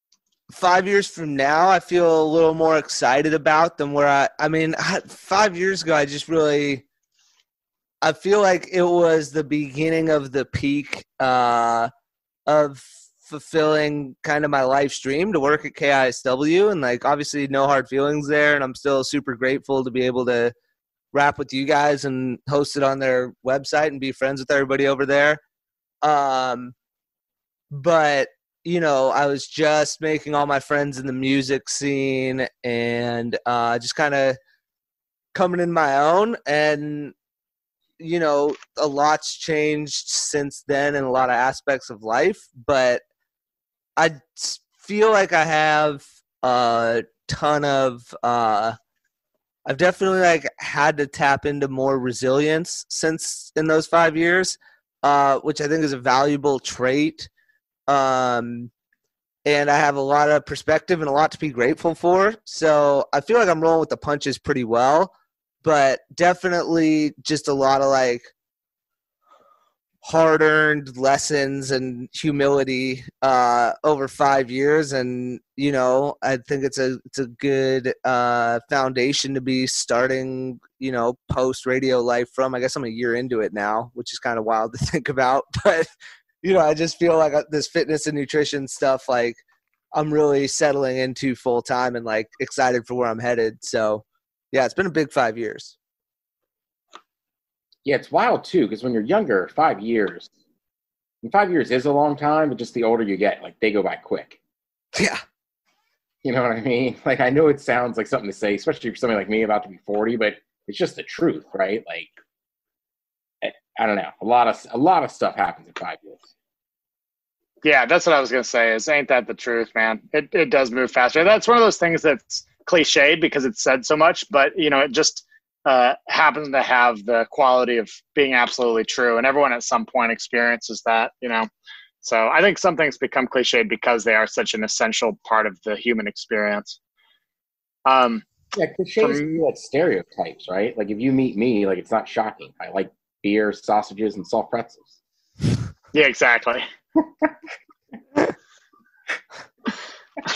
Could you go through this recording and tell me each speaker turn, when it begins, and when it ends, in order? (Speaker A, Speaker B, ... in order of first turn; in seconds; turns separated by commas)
Speaker A: 0.5-6.8, Speaker A: 8.0-11.9, Speaker A: 12.5-20.5, Speaker A: 21.1-25.4, Speaker A: 26.0-26.8, Speaker A: 27.7-34.4, Speaker A: 35.3-37.1, Speaker A: 38.0-43.0, Speaker A: 44.0-48.8, Speaker A: 49.7-57.3, Speaker A: 57.9-58.7, Speaker A: 59.5-68.3, Speaker A: 70.0-85.9, Speaker A: 86.4-89.4, Speaker A: 89.9-95.8, Speaker B: 97.8-100.3, Speaker B: 101.2-104.4, Speaker A: 105.0-105.2, Speaker B: 106.2-112.1, Speaker B: 113.4-116.3, Speaker C: 117.6-131.5, Speaker C: 132.0-136.8, Speaker C: 137.9-138.3, Speaker B: 138.5-144.9, Speaker C: 139.0-139.4, Speaker C: 145.9-146.6